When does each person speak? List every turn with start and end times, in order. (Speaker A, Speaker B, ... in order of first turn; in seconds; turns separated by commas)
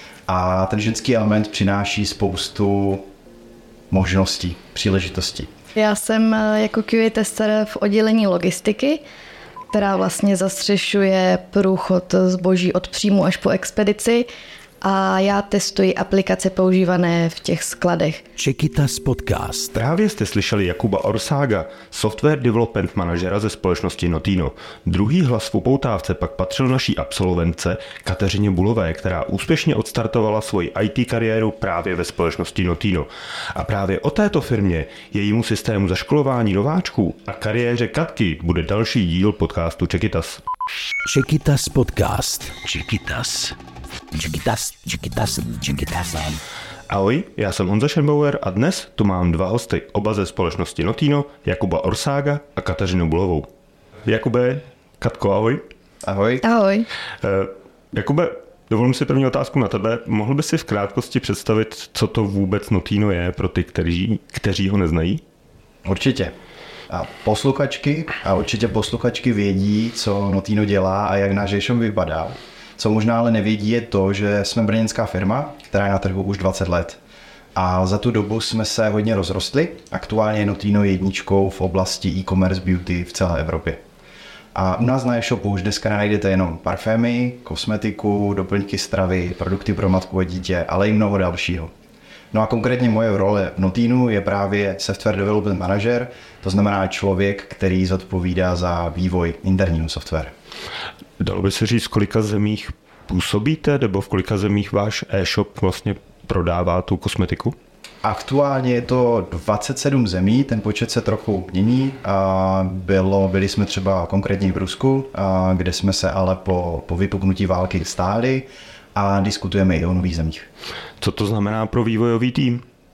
Speaker A: 0.3-3.0, Speaker A: 3.9-5.5, Speaker B: 5.8-9.0, Speaker B: 9.7-14.3, Speaker B: 14.8-18.2, Speaker C: 18.4-19.7, Speaker D: 19.7-40.4, Speaker C: 41.0-43.6, Speaker C: 44.1-46.4, Speaker D: 46.9-53.5, Speaker D: 54.0-55.6, Speaker A: 56.0-56.5, Speaker B: 56.4-56.9, Speaker D: 57.2-65.2, Speaker A: 65.8-66.3, Speaker A: 66.9-77.0, Speaker A: 77.5-83.8, Speaker A: 84.5-91.7, Speaker A: 92.3-100.3, Speaker D: 101.2-107.5, Speaker A: 108.0-120.5, Speaker D: 121.0-122.6